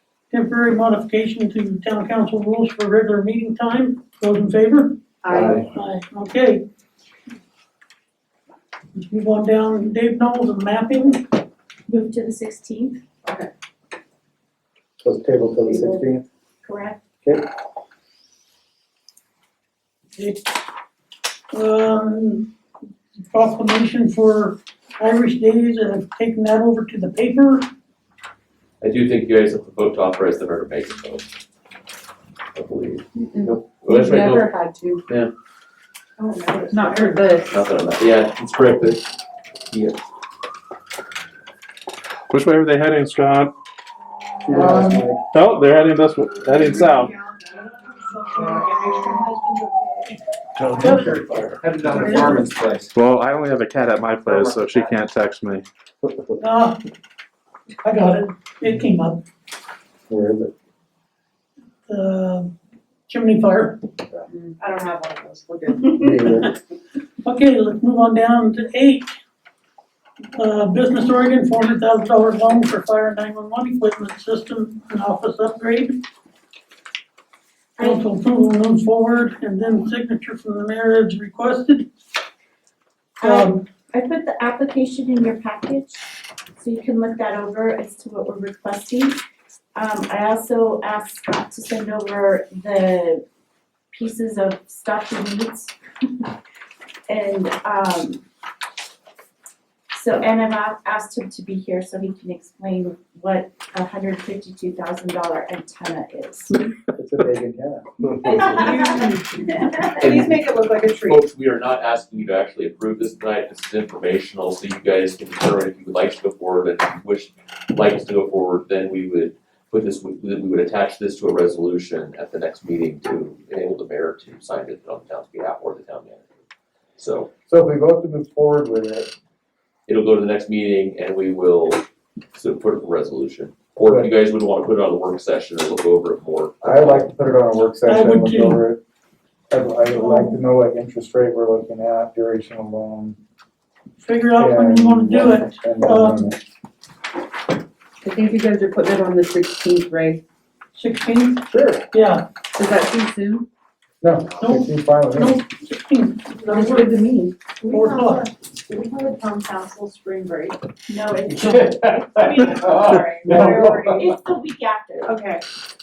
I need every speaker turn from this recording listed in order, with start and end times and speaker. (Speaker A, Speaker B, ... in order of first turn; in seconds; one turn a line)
Speaker A: 0.3-5.0
Speaker B: 5.2-5.7
Speaker C: 5.3-5.7
Speaker A: 5.6-6.7
Speaker A: 9.0-11.3
Speaker D: 11.9-13.0
Speaker B: 13.2-13.5
Speaker C: 15.0-16.2
Speaker D: 15.7-16.1
Speaker D: 16.6-17.0
Speaker A: 20.2-20.5
Speaker A: 21.5-22.5
Speaker A: 23.3-27.7
Speaker E: 28.8-31.2
Speaker E: 32.5-34.5
Speaker F: 33.1-35.0
Speaker B: 36.2-37.6
Speaker F: 36.7-37.5
Speaker E: 37.5-39.0
Speaker E: 39.7-40.0
Speaker G: 42.3-43.5
Speaker C: 44.5-45.2
Speaker G: 44.7-47.1
Speaker B: 46.5-50.2
Speaker G: 50.6-51.6
Speaker H: 50.7-52.9
Speaker B: 51.9-52.5
Speaker G: 52.9-55.6
Speaker H: 54.2-54.9
Speaker A: 56.4-56.8
Speaker A: 57.8-59.2
Speaker C: 60.1-60.5
Speaker A: 61.9-62.5
Speaker A: 63.1-63.8
Speaker B: 64.3-66.4
Speaker C: 65.9-66.5
Speaker A: 67.2-69.1
Speaker A: 70.3-76.0
Speaker D: 77.8-78.2
Speaker A: 77.8-81.9
Speaker D: 83.2-89.2
Speaker A: 83.2-83.5
Speaker D: 89.7-93.2
Speaker D: 93.9-95.7
Speaker D: 97.1-98.2
Speaker D: 99.9-106.6
Speaker C: 107.0-107.9
Speaker D: 108.2-108.9
Speaker B: 108.2-111.2
Speaker E: 110.0-110.4
Speaker E: 111.0-126.2
Speaker E: 127.0-127.3
Speaker C: 127.5-129.1
Speaker E: 129.9-137.0
Speaker C: 136.6-138.8
Speaker A: 137.8-138.6
Speaker C: 139.5-143.2
Speaker A: 139.9-140.4
Speaker A: 144.0-146.3
Speaker C: 144.4-146.4
Speaker F: 148.0-150.2
Speaker A: 150.7-152.2
Speaker C: 151.5-151.8
Speaker F: 152.6-153.5
Speaker C: 154.0-155.4
Speaker A: 154.4-157.0
Speaker F: 156.5-157.3
Speaker B: 157.6-160.6
Speaker A: 157.7-158.2
Speaker D: 160.9-162.9
Speaker H: 161.3-163.9
Speaker B: 162.1-164.1
Speaker C: 163.2-163.8
Speaker D: 163.9-165.2
Speaker B: 165.0-165.4